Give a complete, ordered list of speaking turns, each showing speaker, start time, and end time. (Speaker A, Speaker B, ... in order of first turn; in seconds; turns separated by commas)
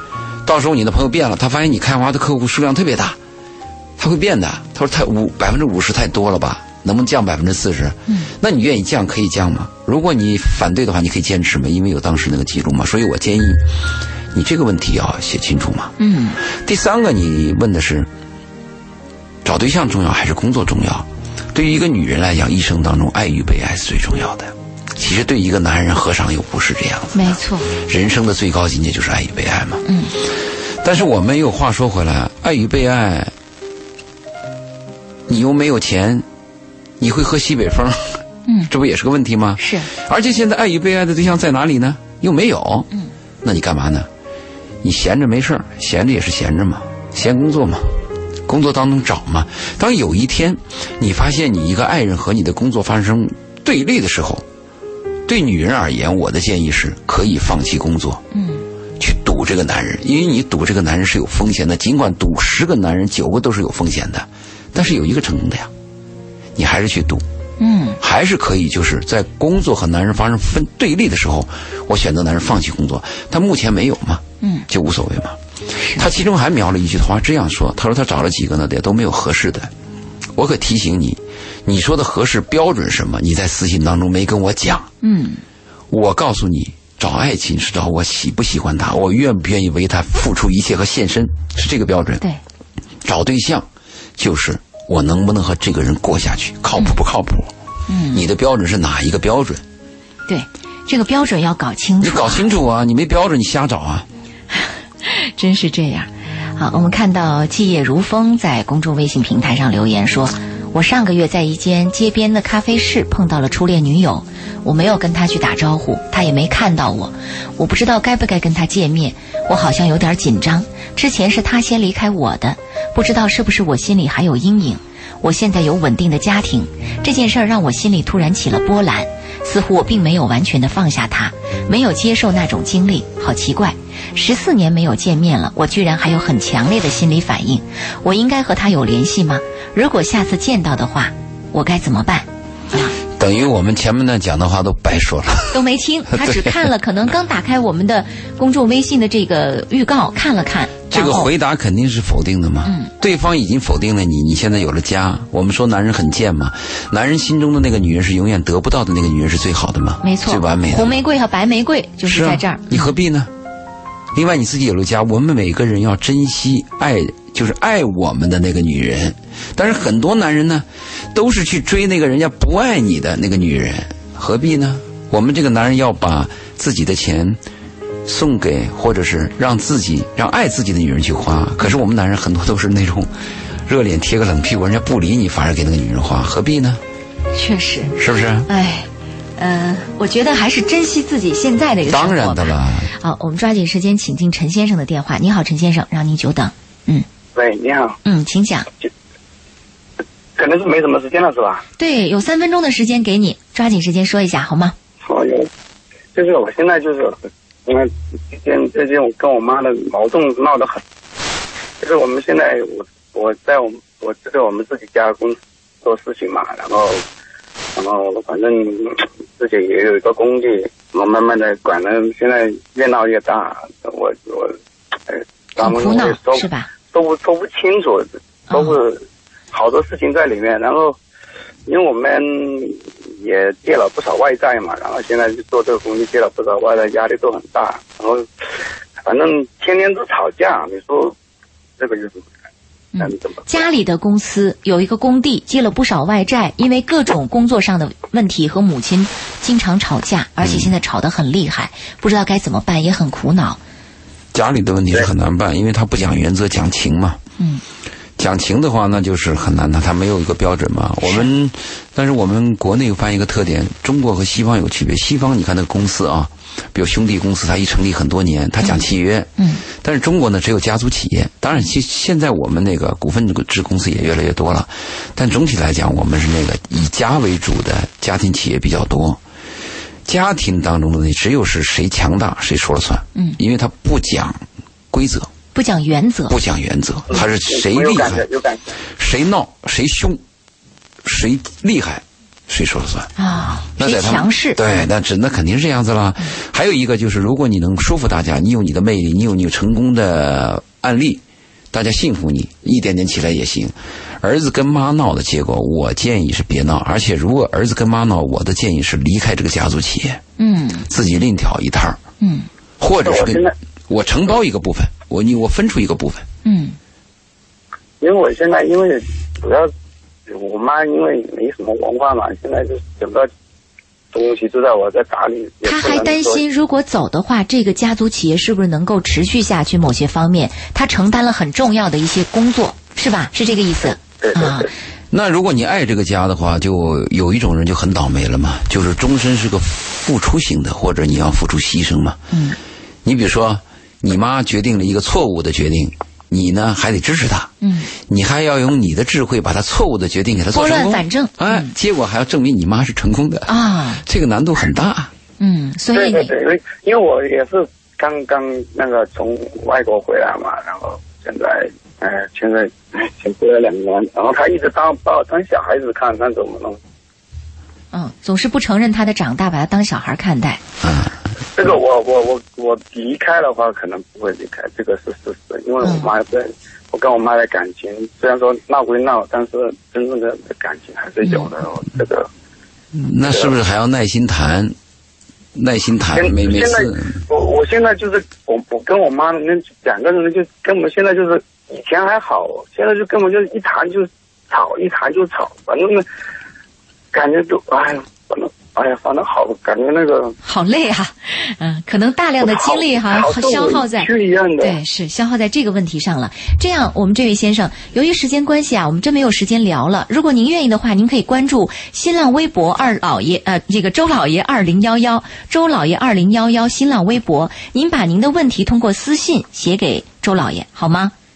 Speaker A: 0.4-3.2, Speaker A: 4.0-13.6, Speaker A: 14.3-18.1, Speaker B: 16.0-16.4, Speaker A: 19.4-33.3, Speaker B: 27.1-27.7, Speaker B: 29.8-30.1, Speaker A: 35.3-36.2, Speaker A: 37.0-42.9, Speaker B: 39.6-39.9, Speaker A: 43.4-44.1, Speaker A: 44.8-54.4, Speaker A: 55.2-58.2, Speaker B: 58.3-58.6, Speaker A: 59.0-65.7, Speaker A: 66.5-67.2, Speaker B: 67.6-68.0, Speaker A: 68.0-79.7, Speaker B: 75.8-76.0, Speaker A: 80.3-84.9, Speaker B: 85.0-85.4, Speaker A: 85.9-92.2, Speaker A: 93.0-97.5, Speaker B: 97.9-98.2, Speaker A: 98.1-99.6, Speaker B: 100.3-102.5, Speaker A: 102.0-104.1, Speaker B: 104.5-142.9, Speaker A: 143.0-146.7, Speaker B: 145.5-151.3, Speaker A: 150.9-161.0, Speaker B: 152.6-152.9, Speaker B: 160.0-162.9, Speaker A: 162.1-163.3, Speaker A: 164.1-177.4, Speaker A: 178.0-183.1, Speaker A: 183.7-186.8, Speaker B: 187.3-187.9, Speaker A: 187.9-188.5, Speaker B: 188.5-197.1, Speaker A: 191.9-192.9, Speaker C: 197.3-198.0, Speaker B: 198.0-198.7, Speaker C: 200.4-201.6, Speaker B: 201.8-204.7, Speaker C: 205.0-205.5, Speaker C: 206.1-210.8, Speaker C: 211.8-217.0, Speaker C: 217.8-224.6, Speaker C: 225.1-231.0, Speaker B: 225.6-226.7, Speaker B: 228.5-228.8, Speaker C: 231.7-238.3, Speaker C: 239.0-241.2, Speaker C: 241.8-242.3, Speaker B: 242.9-253.6, Speaker C: 243.0-243.7, Speaker A: 250.4-250.7, Speaker A: 254.3-257.2, Speaker A: 258.2-279.2, Speaker B: 261.0-261.3, Speaker B: 269.4-269.6, Speaker A: 280.1-285.3, Speaker B: 285.5-286.4, Speaker A: 286.3-288.3, Speaker C: 287.1-288.7, Speaker A: 288.9-290.2, Speaker A: 291.0-293.1, Speaker B: 293.2-294.6, Speaker A: 293.8-310.2, Speaker B: 310.4-310.9, Speaker A: 310.9-312.0, Speaker B: 312.2-312.5, Speaker A: 312.8-316.3, Speaker C: 313.0-313.5, Speaker B: 316.4-316.8, Speaker C: 318.0-319.7, Speaker C: 320.3-323.3, Speaker C: 324.1-326.4, Speaker B: 325.6-334.7, Speaker C: 334.2-334.7, Speaker A: 335.1-342.2, Speaker B: 342.3-342.6, Speaker A: 343.0-355.1, Speaker B: 347.6-347.9, Speaker B: 350.5-351.7, Speaker B: 353.5-354.0, Speaker B: 355.4-356.3, Speaker C: 355.9-366.8, Speaker B: 367.9-370.6, Speaker A: 370.8-371.1, Speaker C: 371.5-382.3, Speaker B: 375.8-376.1, Speaker B: 381.2-381.5, Speaker A: 382.9-384.8, Speaker C: 383.3-383.5, Speaker A: 385.5-387.1, Speaker C: 386.1-396.0, Speaker C: 397.1-400.4, Speaker B: 400.4-421.1, Speaker C: 402.4-404.8